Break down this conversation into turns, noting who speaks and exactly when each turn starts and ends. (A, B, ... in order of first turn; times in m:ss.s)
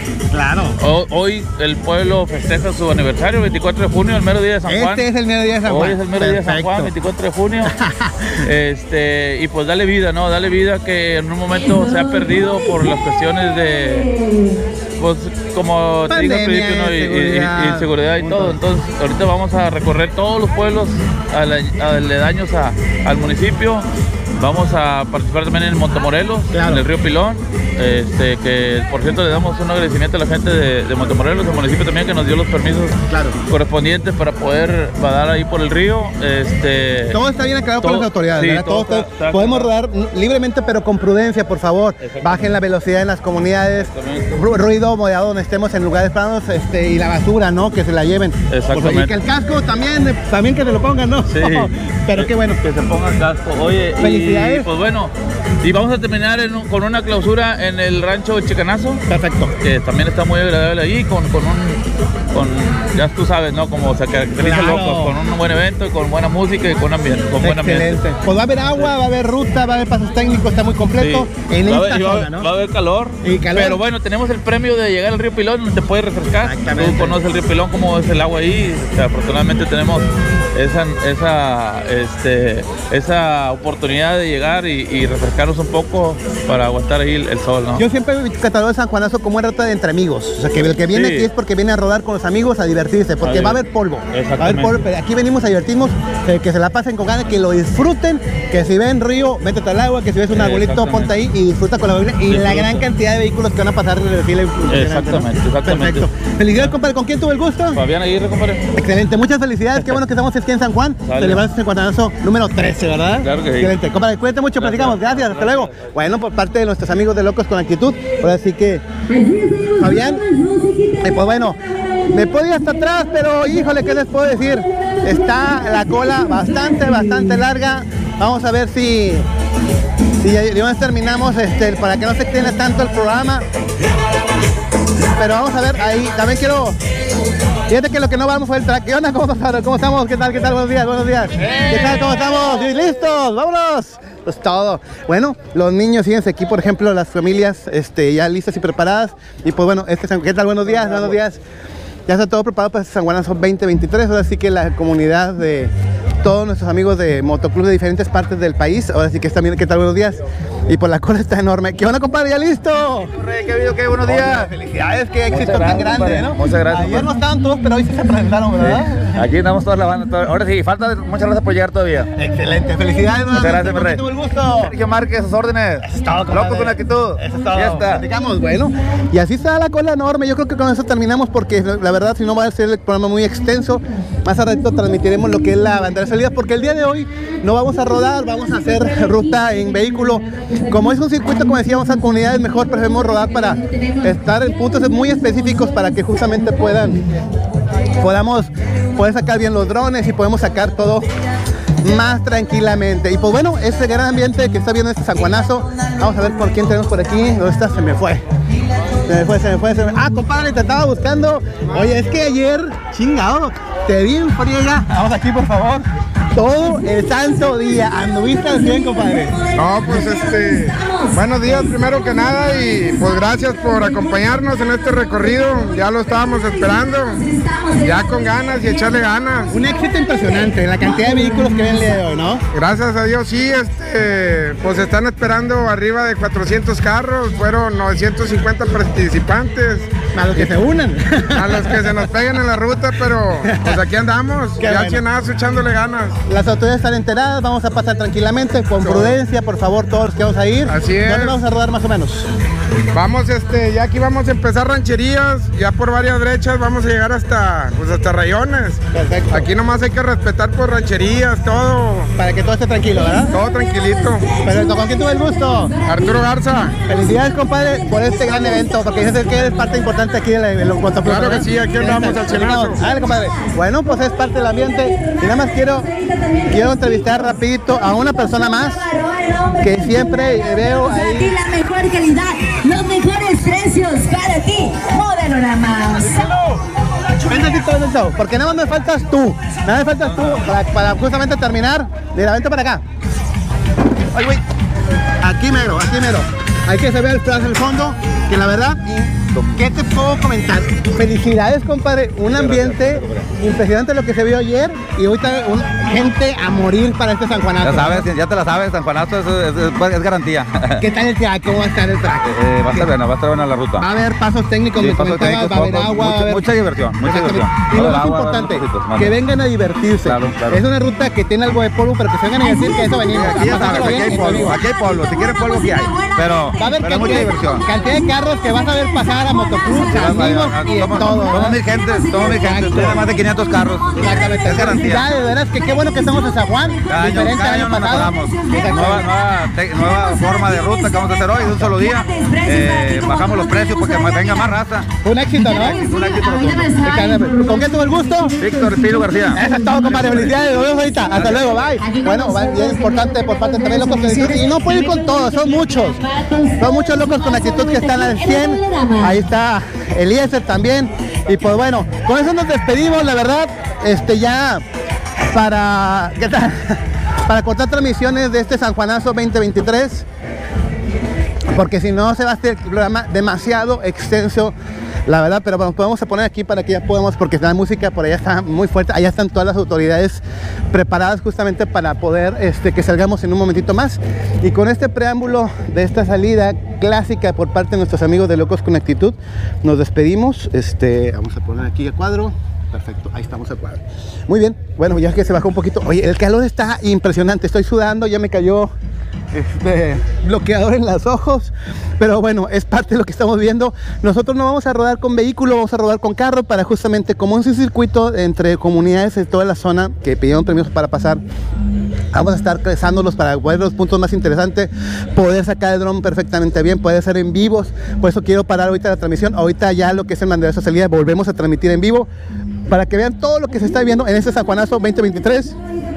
0:00.3-0:00.8 A
0:00.8-0:05.0 B
0:04.6-0:06.9 A
0:05.7-0:07.7 B
0:07.6-0:08.4 A
0:08.4-0:14.1 B
0:15.0-0:37.2 B
0:16.1-0:18.6 A
0:26.5-0:26.8 A
0:33.1-0:33.4 A
0:37.1-0:52.6 A
0:37.8-0:39.7 B
0:42.0-0:42.6 B
0:43.7-0:44.4 B
0:48.5-0:49.1 B
0:51.2-0:59.0 B
0:54.0-0:54.7 A
0:59.1-0:59.5 A
0:59.6-1:08.0 B
1:04.4-1:05.2 A
1:07.4-1:12.5 A
1:11.0-1:27.8 B
1:13.2-1:13.8 A
1:16.4-1:17.2 A
1:27.8-1:47.8 A
1:30.6-1:31.3 B
1:33.2-1:34.8 B
1:40.3-1:41.2 B
1:42.2-1:42.8 B
1:44.7-1:46.7 B
1:47.7-1:48.6 B
1:48.7-1:58.8 A
1:51.0-1:51.4 B
1:53.2-1:53.7 B
1:54.6-1:55.8 B
1:59.1-2:01.0 C
1:59.8-2:00.3 A
2:01.0-2:09.2 A
2:10.2-2:13.4 A
2:15.2-2:16.8 A
2:17.7-2:31.4 A
2:32.1-2:35.7 A
2:36.2-2:43.1 A
2:43.2-2:44.5 D
2:44.0-2:49.3 A
2:45.3-2:47.0 D
2:45.5-2:47.0 B
2:48.6-2:52.1 D
2:52.1-2:54.7 A
2:53.3-2:54.0 D
2:54.6-2:58.0 D
2:55.8-3:17.0 A
3:18.0-3:21.0 A
3:21.8-3:28.2 A
3:29.1-3:39.4 A
3:39.3-3:41.1 C
3:39.5-3:47.2 E
3:47.2-3:48.0 C
3:47.8-3:49.5 E
3:49.5-3:52.4 A
3:52.5-4:00.5 E
4:00.1-4:02.0 A
4:01.3-4:06.2 E
4:03.4-4:03.8 A
4:04.6-4:05.0 A
4:06.3-4:12.3 A
4:08.8-4:09.2 E
4:10.6-4:11.4 E
4:12.9-4:22.1 E
4:18.9-4:19.5 A
4:22.2-4:23.3 A
4:23.3-4:24.3 E
4:24.4-4:25.8 A
4:25.8-4:26.8 E
4:26.8-4:35.9 A
4:31.0-4:32.8 E
4:32.8-4:33.4 C
4:36.1-4:36.6 C
4:36.4-4:38.9 A
4:38.7-4:39.7 C
4:39.6-4:41.4 A
4:40.3-4:46.4 C
4:47.2-4:52.8 A
4:55.2-5:08.1 A
5:02.2-5:03.2 D
5:07.6-5:10.8 D
5:10.8-5:12.9 A
5:12.2-5:13.8 D
5:13.8-5:16.5 A
5:14.8-5:19.2 D
5:17.0-5:24.6 A
5:20.0-5:20.6 D
5:22.6-5:23.2 C
5:23.1-5:27.6 D
5:23.9-5:24.4 C
5:25.0-5:27.8 C
5:26.5-5:31.6 A
5:29.7-5:30.1 C
5:29.9-5:35.0 D
5:30.6-5:31.5 C
5:32.2-5:35.0 C
5:32.3-5:33.1 A
5:34.0-5:39.1 A
5:35.8-5:36.7 C
5:36.9-5:44.9 D
5:37.8-5:38.9 C
5:39.6-5:44.6 C
5:45.0-5:45.8 A
5:45.4-5:49.5 C
5:45.5-5:46.8 D
5:46.8-5:48.4 A
5:48.4-5:50.4 D
5:49.3-5:56.0 A
5:51.1-5:51.6 D
5:51.8-5:52.4 C
5:56.1-5:56.7 C
5:56.6-6:04.6 A
5:58.7-5:59.0 C
6:05.3-6:10.0 A
6:11.5-6:14.5 A
6:15.1-6:38.7 A
6:39.3-6:51.2 A
6:52.1-7:02.1 A
7:02.7-7:05.6 A